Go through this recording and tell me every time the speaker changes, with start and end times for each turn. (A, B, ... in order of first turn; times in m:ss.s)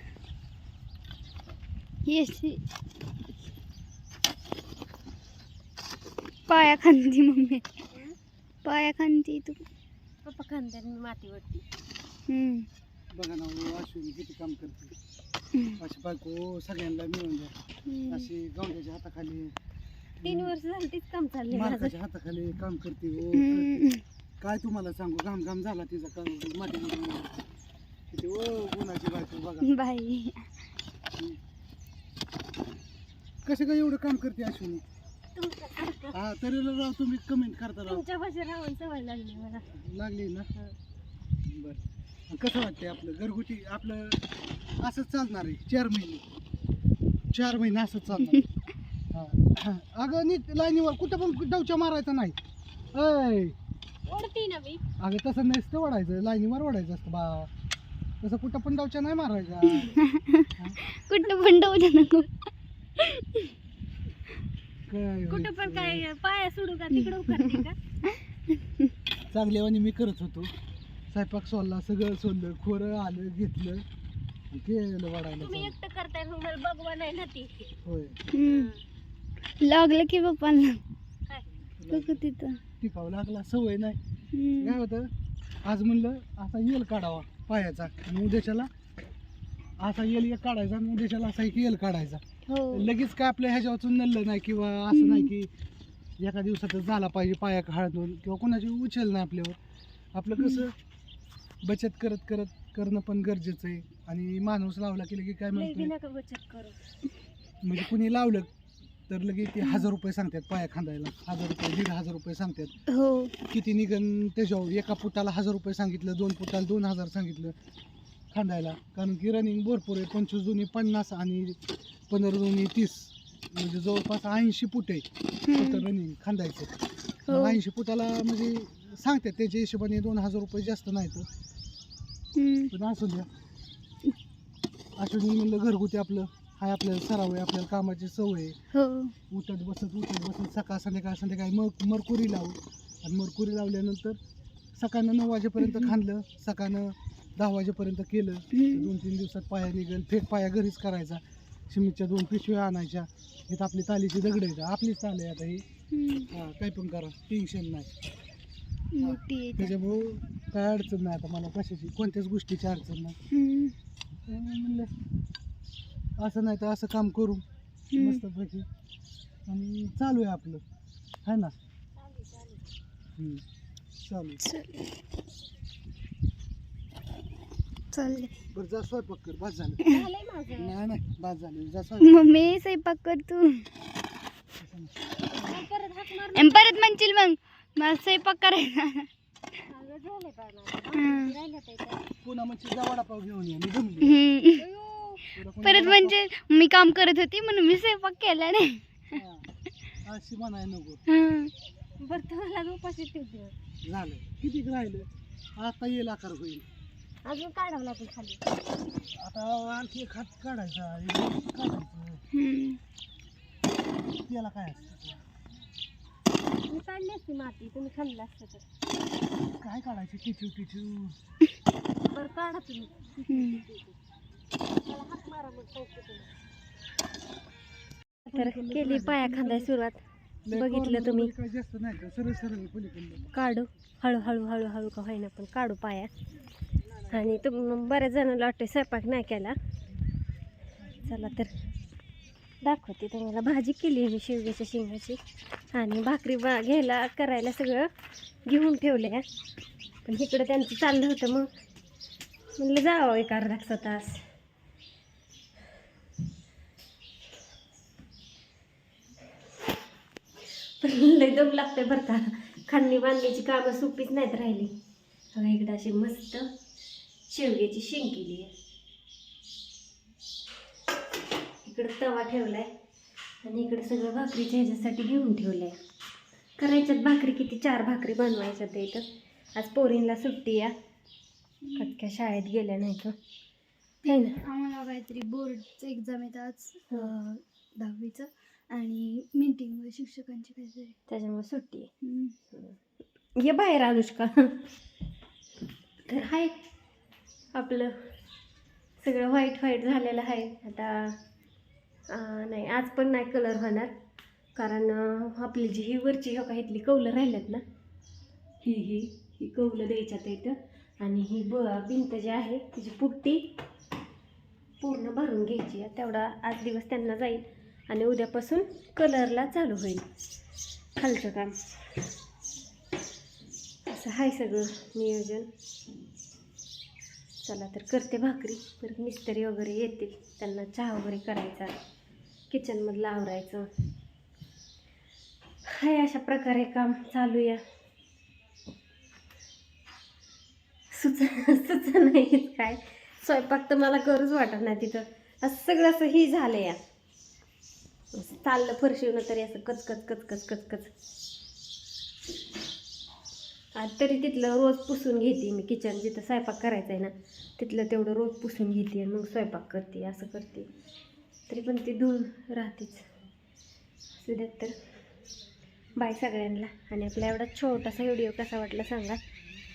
0:02.0-0:02.6 A
0:06.5-0:07.7 A
0:07.9-0:08.2 B
0:08.6-0:09.6 A
0:10.2-0:11.6 B
0:12.3-0:12.6 A
0:13.1-0:14.9 C
0:15.8-0:17.5 C
0:17.9-0:18.3 A
0:18.1-0:19.5 C
0:20.2-0:20.5 C
0:20.2-0:22.0 B
0:21.5-0:23.9 C
0:23.3-0:24.0 A
0:24.4-0:27.3 C
0:28.1-0:29.7 C
0:29.6-0:30.5 A
0:33.4-0:34.9 C
0:35.4-0:36.2 B
0:36.1-0:38.0 C
0:37.8-0:39.6 B
0:39.7-0:40.5 C
0:41.4-0:44.2 C
0:44.8-0:46.2 C
0:47.3-0:48.4 C
0:49.1-0:52.4 C
0:52.9-0:53.5 C
0:54.0-0:54.8 B
0:55.0-0:57.5 C
0:58.2-1:00.0 C
0:59.7-1:02.3 A
1:03.0-1:03.4 A
1:04.9-1:06.1 C
1:05.3-1:07.8 B
1:07.3-1:07.6 A
1:09.3-1:10.5 C
1:11.1-1:13.8 C
1:14.5-1:15.7 C
1:15.4-1:17.7 B
1:17.8-1:18.2 C
1:18.3-1:18.7 A
1:18.4-1:18.8 B
1:19.6-1:20.8 A
1:21.8-1:22.2 C
1:21.9-1:22.6 A
1:22.8-1:24.0 C
1:24.3-1:24.8 A
1:24.6-1:25.1 C
1:25.6-1:28.7 C
1:29.8-1:35.5 C
1:32.5-1:32.9 A
1:34.9-1:35.3 A
1:36.2-1:39.6 C
1:40.1-1:40.7 C
1:40.4-1:40.6 A
1:41.6-1:45.9 C
1:45.5-1:46.8 B
1:47.6-1:48.5 C
1:49.1-1:52.7 C
1:52.9-1:53.3 A
1:53.5-1:57.5 C
1:58.3-2:01.6 C
2:02.1-2:06.7 C
2:05.5-2:05.8 A
2:07.3-2:07.6 A
2:07.3-2:11.3 C
2:12.4-2:12.7 A
2:12.7-2:13.3 C
2:15.0-2:18.5 C
2:18.7-2:19.1 A
2:19.3-2:24.2 C
2:24.8-2:35.6 C
2:25.6-2:25.9 A
2:28.5-2:28.9 A
2:35.9-2:36.3 A
2:36.3-2:37.9 C
2:38.9-2:39.7 A
2:39.0-2:43.2 C
2:43.3-2:43.7 A
2:44.3-2:44.9 C
2:46.2-2:47.4 C
2:47.9-2:48.2 A
2:47.9-2:48.6 C
2:49.5-2:50.6 C
2:51.2-2:51.5 C
2:52.0-2:52.7 B
2:53.2-2:53.4 C
2:54.0-2:54.4 C
2:54.4-2:54.9 A
2:57.9-2:58.3 A
2:58.5-2:59.8 C
2:59.8-3:00.8 B
3:00.6-3:02.3 C
3:02.0-3:03.6 A
3:04.6-3:05.6 C
3:05.3-3:06.9 B
3:06.3-3:09.1 A
3:09.6-3:12.0 B
3:10.9-3:11.4 A
3:12.2-3:14.2 C
3:14.0-3:14.6 A
3:14.6-3:15.2 B
3:15.3-3:16.2 C
3:15.6-3:19.2 A
3:19.1-3:19.5 C
3:20.0-3:21.0 C
3:21.1-3:21.5 A
3:22.0-3:23.5 B
3:23.8-3:25.1 C
3:25.6-3:26.7 C
3:27.2-3:28.4 B
3:29.1-3:32.2 C
3:32.3-3:32.8 A
3:34.2-3:35.2 C
3:36.7-3:38.6 B
3:39.6-3:41.2 C
3:42.0-3:44.0 B
3:43.3-3:43.6 A
3:44.8-3:46.3 B
3:48.3-3:49.7 C
3:48.3-3:51.3 B
3:50.4-3:53.2 C
3:53.3-3:56.1 B
3:57.1-3:59.6 B
4:01.0-4:01.5 B
4:02.6-4:05.2 B
4:05.7-4:07.9 B
4:08.4-4:09.2 B
4:10.0-4:11.5 B
4:12.6-4:14.2 B
4:20.8-4:24.7 B
4:25.3-4:26.5 B
4:27.3-4:28.5 B
4:31.6-4:32.7 B
4:33.4-4:35.8 B
4:36.6-4:40.7 B
4:41.7-4:43.2 B
4:44.0-4:51.0 A
4:44.0-4:44.4 B
4:51.1-4:51.9 B
4:52.0-4:52.3 A
4:52.5-4:52.8 B
4:53.3-4:54.6 B
4:56.0-4:56.5 B
4:57.5-4:58.1 B
4:59.0-5:01.2 B
5:02.1-5:03.9 B
5:04.5-5:07.6 B
5:08.6-5:13.5 B
5:14.8-5:20.0 B
5:21.0-5:21.8 B
5:23.8-5:25.5 B
5:27.4-5:31.7 B
5:32.5-5:33.6 B
5:35.6-5:37.6 B
5:40.9-5:46.8 B
5:48.1-5:50.9 B
5:53.8-6:00.7 B
6:01.5-6:03.1 B
6:04.2-6:04.8 B
6:06.0-6:09.2 B